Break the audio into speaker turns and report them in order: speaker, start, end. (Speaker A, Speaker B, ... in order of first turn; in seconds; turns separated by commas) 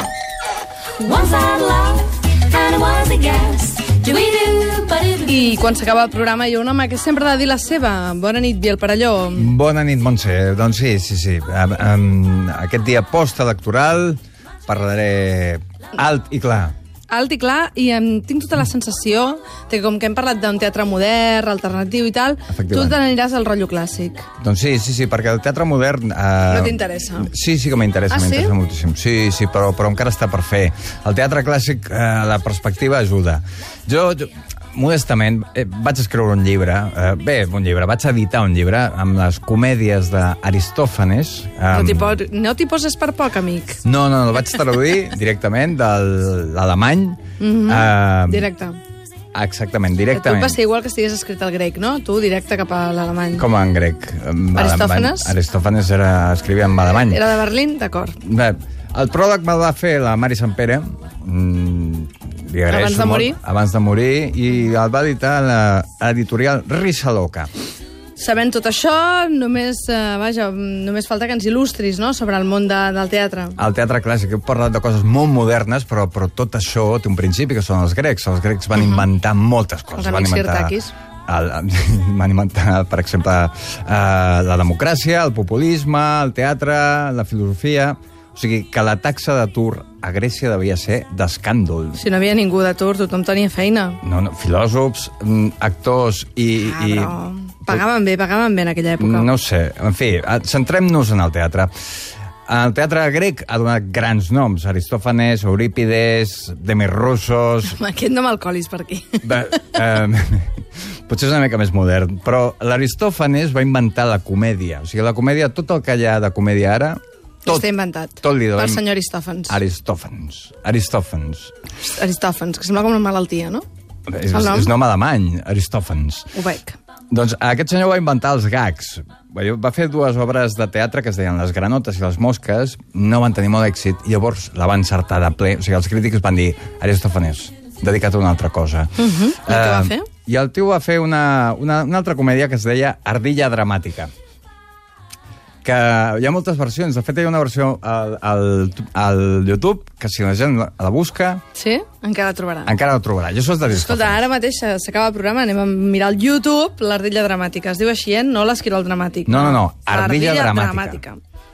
Speaker A: 1.0-5.2, Speaker B: 5.1-9.5, Speaker C: 9.3-16.7, Speaker B: 17.1-24.3, Speaker C: 22.5-23.0, Speaker C: 24.4-42.2, Speaker B: 26.5-27.3, Speaker B: 28.1-28.5, Speaker B: 41.7-43.8, Speaker C: 43.8-48.5, Speaker B: 47.4-48.8, Speaker C: 49.3-50.6, Speaker B: 50.1-53.5, Speaker C: 53.4-57.2, Speaker B: 54.5-55.3, Speaker B: 57.1-58.2, Speaker C: 58.2-67.5, Speaker B: 62.7-63.4, Speaker B: 68.2-73.6, Speaker C: 73.6-80.7, Speaker B: 78.8-79.0, Speaker B: 79.9-80.9, Speaker C: 81.3-92.0, Speaker B: 92.0-94.0, Speaker C: 94.0-97.8, Speaker B: 96.6-99.3, Speaker C: 99.0-101.7, Speaker C: 102.5-107.8, Speaker B: 107.7-109.4, Speaker C: 109.2-117.7, Speaker B: 117.4-119.6, Speaker C: 118.2-118.8, Speaker C: 119.5-121.5, Speaker B: 121.8-123.6, Speaker C: 124.1-126.3, Speaker B: 124.3-124.7, Speaker B: 126.3-126.8, Speaker C: 127.1-144.1, Speaker B: 139.0-140.1, Speaker C: 145.6-151.4, Speaker B: 151.5-152.7, Speaker C: 152.7-154.3, Speaker B: 153.7-161.2, Speaker C: 159.2-161.0